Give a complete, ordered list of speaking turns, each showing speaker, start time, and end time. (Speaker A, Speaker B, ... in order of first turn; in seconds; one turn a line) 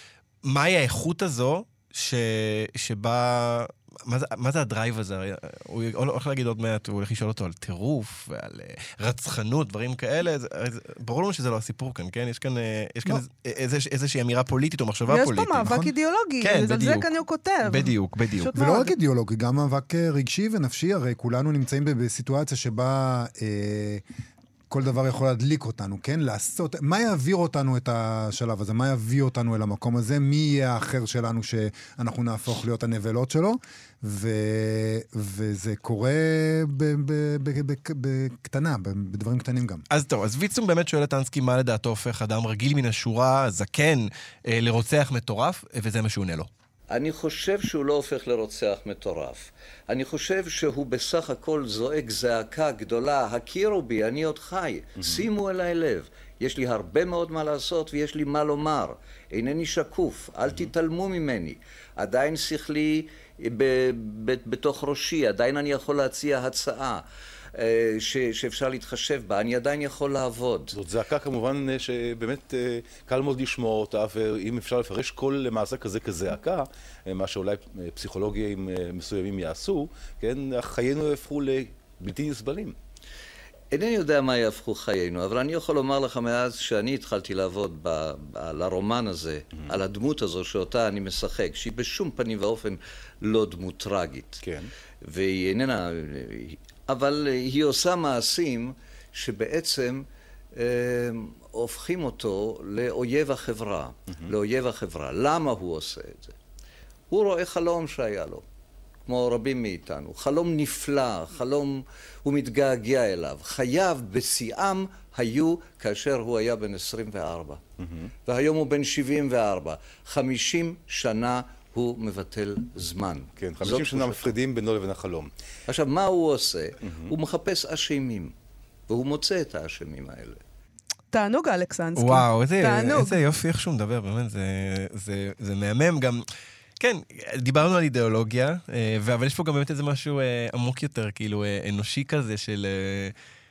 Speaker A: 0.4-15.8
Speaker B: 15.1-18.9
Speaker C: 15.6-15.9
Speaker A: 16.4-17.1
Speaker A: 17.6-18.5
Speaker C: 18.5-24.0
Speaker C: 24.7-39.8
Speaker A: 39.9-46.5
Speaker D: 46.9-70.7
Speaker E: 70.7-82.8
Speaker D: 83.7-94.4
Speaker E: 94.4-94.7
Speaker D: 95.0-100.0
Speaker D: 100.5-106.3
Speaker D: 107.1-108.4
Speaker D: 109.0-117.6
Speaker E: 117.8-118.1
Speaker D: 118.3-124.3
Speaker E: 123.4-125.3
Speaker D: 125.7-128.3
Speaker E: 126.8-127.1
Speaker D: 128.9-130.4
Speaker B: 131.1-133.2
Speaker A: 131.9-136.2
Speaker A: 136.8-143.1